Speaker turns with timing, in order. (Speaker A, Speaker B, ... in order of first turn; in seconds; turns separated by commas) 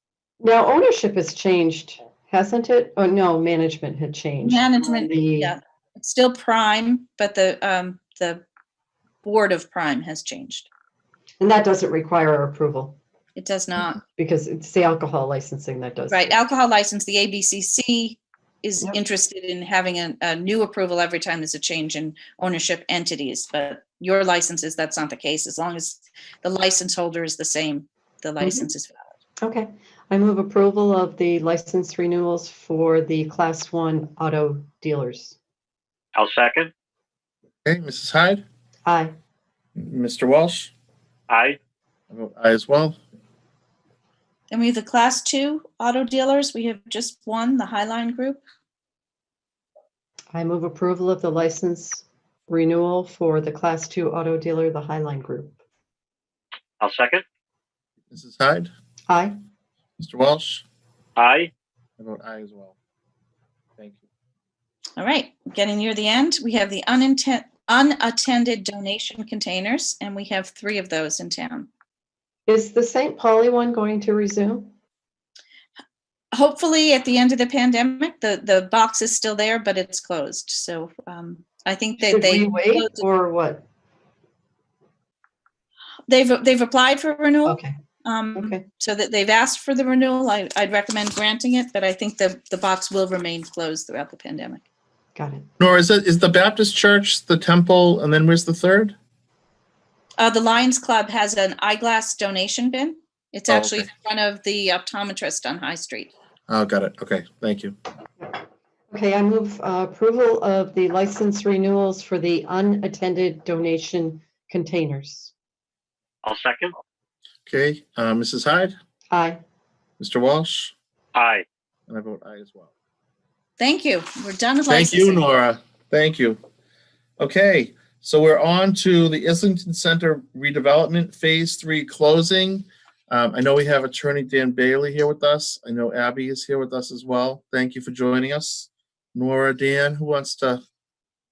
Speaker A: 0.4-5.5, Speaker B: 4.4-8.4, Speaker B: 9.2-10.7, Speaker A: 11.4-13.0, Speaker B: 13.3-14.0, Speaker A: 14.2-16.4, Speaker B: 16.1-29.1, Speaker A: 28.4-28.7, Speaker A: 29.4-35.4, Speaker C: 36.1-36.7, Speaker D: 37.6-38.4, Speaker A: 38.9-39.1, Speaker D: 39.8-40.7, Speaker C: 41.3-41.6, Speaker D: 42.1-43.0, Speaker B: 44.5-48.4, Speaker A: 50.3-55.5, Speaker C: 56.8-57.2, Speaker D: 58.1-58.7, Speaker A: 59.1-59.3, Speaker D: 60.0-60.6, Speaker C: 61.2-61.5, Speaker D: 62.0-62.7, Speaker D: 63.8-64.0, Speaker B: 65.0-71.7, Speaker A: 72.5-74.7, Speaker B: 76.3-83.0, Speaker A: 82.0-83.6, Speaker B: 86.1-94.6, Speaker A: 87.4-87.7, Speaker A: 88.3-88.6, Speaker A: 95.2-95.5, Speaker D: 95.6-98.9, Speaker B: 100.2-106.1, Speaker D: 103.5-103.9, Speaker D: 106.5-107.8, Speaker A: 108.9-115.3, Speaker C: 116.2-116.7, Speaker D: 117.5-118.8, Speaker A: 119.1-119.4, Speaker D: 120.0-120.7, Speaker C: 121.1-121.4, Speaker D: 121.9-122.7, Speaker B: 123.6-125.2, Speaker D: 124.7-126.4, Speaker D: 127.2-140.6